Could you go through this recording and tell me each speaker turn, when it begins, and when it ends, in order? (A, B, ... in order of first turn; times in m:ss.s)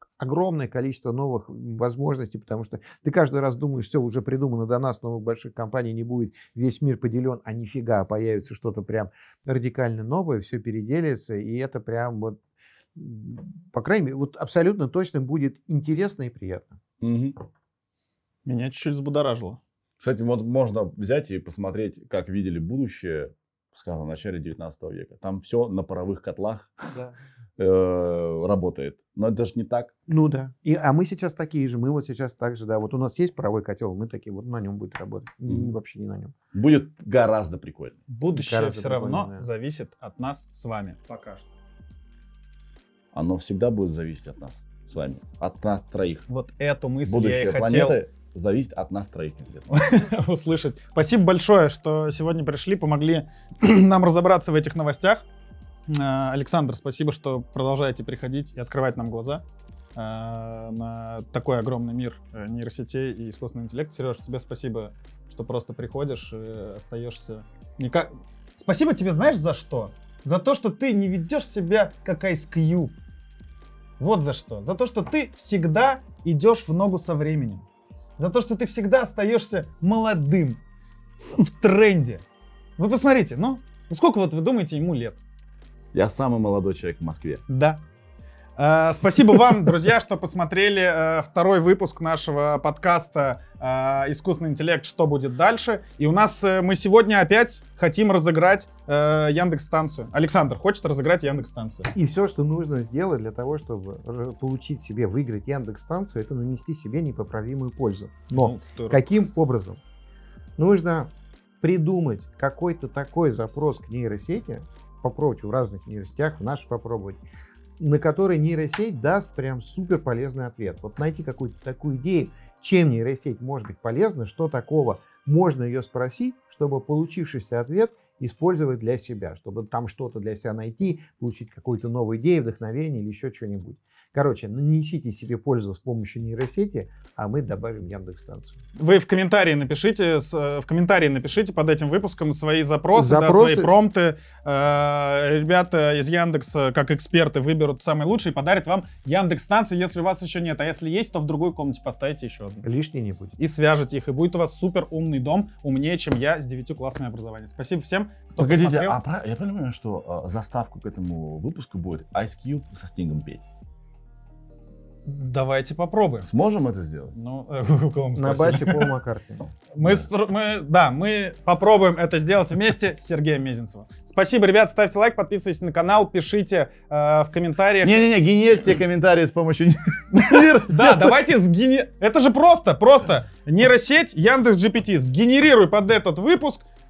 0:00.2-0:12.4 A
0:12.9-0:16.8 A
0:17.0-0:17.3 B
0:18.4-0:19.6 C
0:20.0-0:26.9 B
0:27.6-0:29.9 B
0:30.1-0:36.3 A
0:36.5-0:38.0 B
0:38.1-0:41.4 C
0:38.3-0:39.4 A
0:43.1-0:46.2 B
0:46.3-0:48.0 C
0:47.0-0:49.7 B
0:49.7-0:55.2 C
0:55.9-0:59.4 C
1:00.0-1:12.9 C
1:14.0-1:17.6 C
1:18.2-1:20.6 C
1:21.3-1:22.2 C
1:22.8-1:25.2 C
1:25.9-1:27.4 B
1:27.5-1:27.8 C
1:28.6-1:41.9 C
1:41.9-1:49.8 A
1:48.3-1:49.0 C
1:50.6-1:57.2 A
1:57.8-2:18.6 A
2:18.8-2:32.6 C
2:22.9-2:23.7 A
2:32.6-2:33.3 A
2:33.4-2:39.0 C
2:38.4-2:43.4 B
2:45.0-2:46.3 C
2:46.2-2:47.1 B
2:47.1-2:48.9 C
2:48.2-2:49.4 A
2:49.7-2:58.0 C
2:57.8-3:01.2 B
3:00.1-3:06.6 C